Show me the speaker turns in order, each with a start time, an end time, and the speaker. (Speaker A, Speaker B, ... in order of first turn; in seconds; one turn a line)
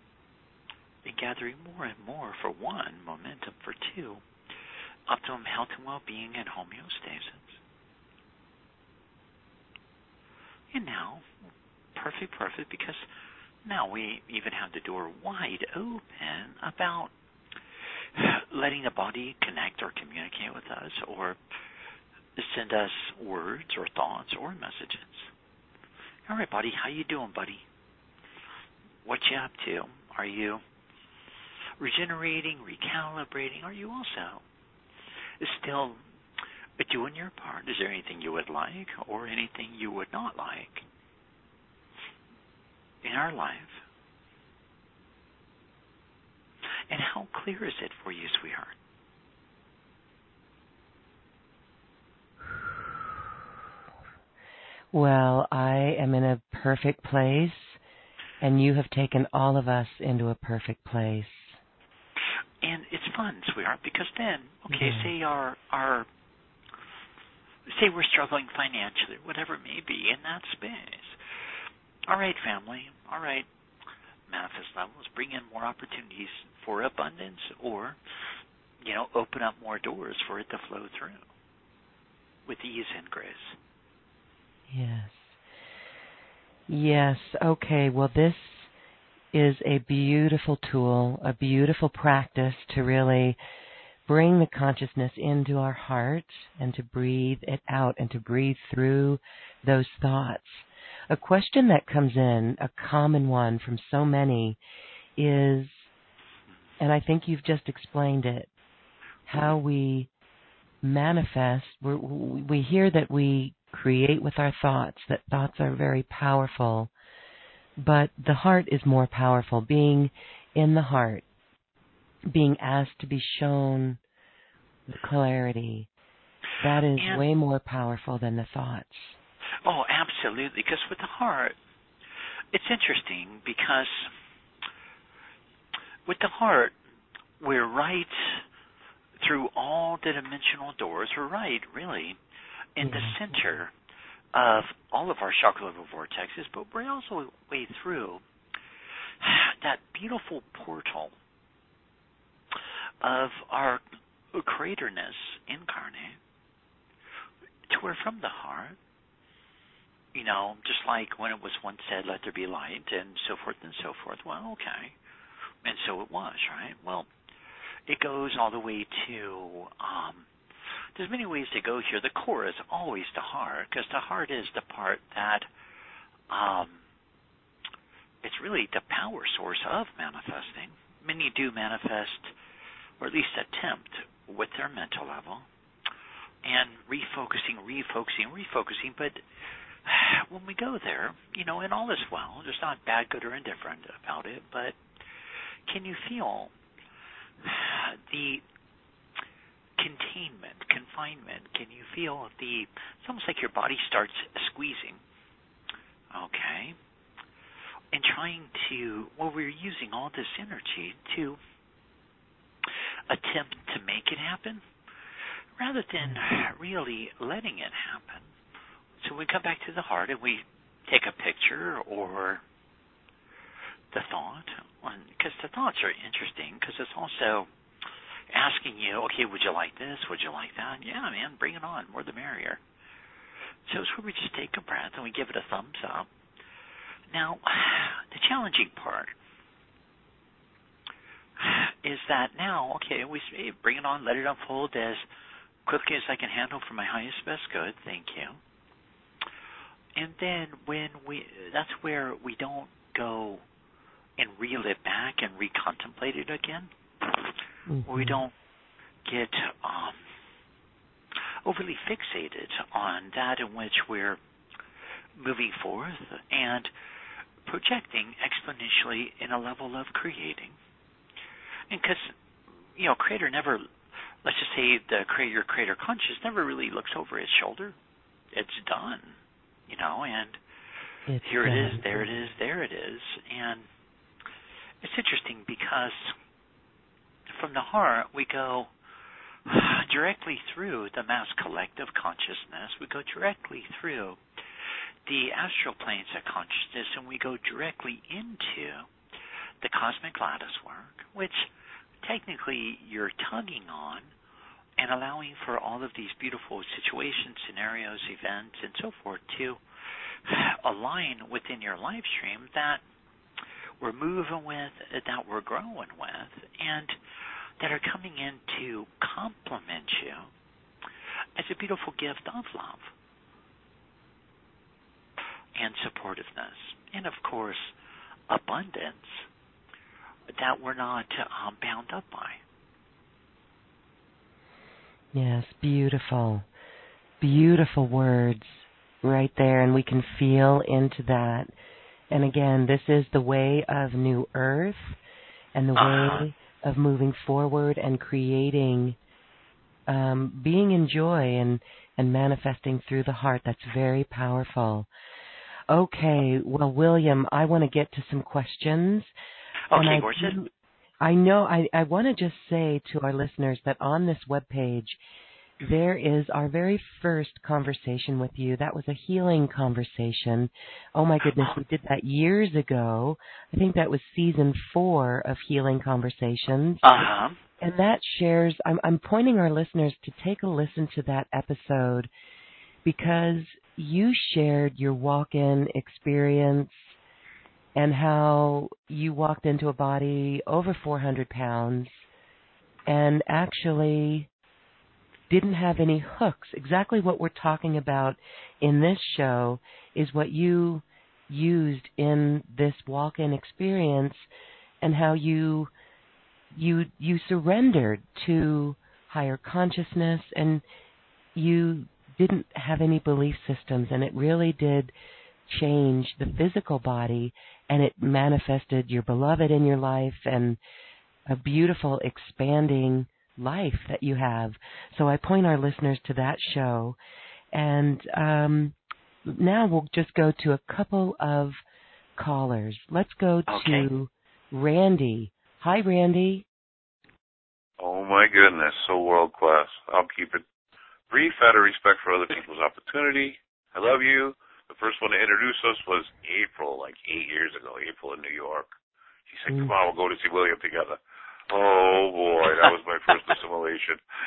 Speaker A: 1.0-4.2
Speaker A: 5.1-7.6
Speaker A: 10.7-11.2
Speaker A: 11.9-13.0
Speaker A: 13.6-17.1
Speaker A: 18.1-21.4
Speaker A: 22.4-25.3
Speaker A: 26.3-27.6
Speaker A: 29.0-30.6
Speaker A: 31.8-34.4
Speaker A: 35.4-36.0
Speaker A: 36.8-40.8
Speaker A: 43.0-43.8
Speaker A: 46.9-48.7
Speaker B: 54.9-57.8
Speaker B: 58.4-61.6
Speaker A: 62.6-66.1
Speaker B: 64.7-65.1
Speaker A: 67.7-71.2
Speaker A: 72.1-73.5
Speaker A: 74.3-78.0
Speaker A: 78.8-81.3
Speaker A: 82.5-83.6
Speaker B: 84.7-85.3
Speaker B: 86.7-88.7
Speaker B: 89.3-93.4
Speaker B: 94.1-104.6
Speaker B: 105.2-105.9
Speaker B: 106.8-108.5
Speaker B: 109.3-110.1
Speaker B: 110.8-116.9
Speaker B: 117.8-121.2
Speaker B: 122.3-124.0
Speaker B: 124.9-125.9
Speaker B: 126.6-129.2
Speaker A: 126.9-127.3
Speaker A: 129.6-131.5
Speaker A: 132.5-134.1
Speaker A: 136.1-136.7
Speaker A: 137.4-138.4
Speaker A: 139.2-142.2
Speaker A: 142.8-143.7
Speaker B: 142.8-143.2
Speaker A: 144.3-148.2
Speaker A: 149.2-151.1
Speaker A: 153.0-153.8
Speaker A: 154.3-156.2
Speaker A: 157.7-158.8
Speaker A: 160.1-164.9
Speaker A: 165.6-167.1
Speaker A: 167.9-170.3
Speaker A: 170.9-175.5
Speaker A: 176.3-176.8
Speaker A: 178.2-182.3
Speaker A: 183.0-185.5
Speaker A: 186.4-189.2
Speaker A: 189.8-194.8
Speaker A: 195.7-196.5
Speaker A: 197.4-198.4
Speaker A: 199.8-205.0
Speaker A: 206.1-206.8
Speaker A: 207.9-211.4
Speaker A: 213.1-214.6
Speaker A: 215.6-218.3
Speaker A: 219.0-222.4
Speaker A: 223.9-227.5
Speaker A: 228.3-232.6
Speaker A: 233.7-236.1
Speaker A: 237.1-239.1
Speaker A: 241.4-245.0
Speaker A: 245.7-248.4
Speaker A: 249.9-253.4
Speaker A: 254.2-257.3
Speaker B: 257.7-258.2
Speaker A: 257.9-258.3
Speaker A: 259.0-260.0
Speaker A: 261.4-264.2
Speaker A: 265.2-266.7
Speaker A: 267.4-270.6
Speaker A: 271.7-272.1
Speaker A: 272.8-273.7
Speaker A: 274.2-277.8
Speaker A: 278.3-280.4
Speaker B: 281.1-282.1
Speaker A: 281.2-283.7
Speaker A: 284.8-286.1
Speaker A: 287.3-288.7
Speaker A: 289.5-294.2
Speaker A: 295.1-298.9
Speaker A: 299.6-301.5
Speaker A: 302.0-304.1
Speaker A: 304.8-309.6
Speaker A: 310.2-312.8
Speaker A: 313.8-316.9
Speaker A: 317.6-320.3
Speaker A: 321.4-322.9
Speaker A: 325.6-327.7
Speaker A: 328.3-329.3
Speaker A: 330.3-332.4
Speaker B: 335.1-336.5
Speaker B: 337.2-341.5
Speaker B: 342.1-345.0
Speaker B: 345.5-349.0
Speaker A: 345.8-346.3
Speaker B: 349.9-354.9
Speaker B: 355.7-359.1
Speaker A: 359.7-360.4
Speaker B: 359.7-360.5
Speaker B: 361.0-365.0
Speaker B: 365.6-376.8
Speaker A: 371.3-371.6
Speaker A: 376.8-377.4
Speaker B: 377.6-382.1
Speaker B: 382.8-386.8
Speaker B: 387.8-392.0
Speaker B: 392.9-394.3
Speaker B: 395.3-404.3
Speaker B: 404.8-405.7
Speaker B: 406.5-410.6
Speaker B: 411.3-414.9
Speaker B: 415.5-420.6
Speaker B: 421.3-427.0
Speaker B: 427.5-431.6
Speaker B: 432.2-436.4
Speaker A: 433.5-433.9
Speaker C: 437.8-440.4
Speaker C: 441.1-448.7
Speaker C: 449.3-454.0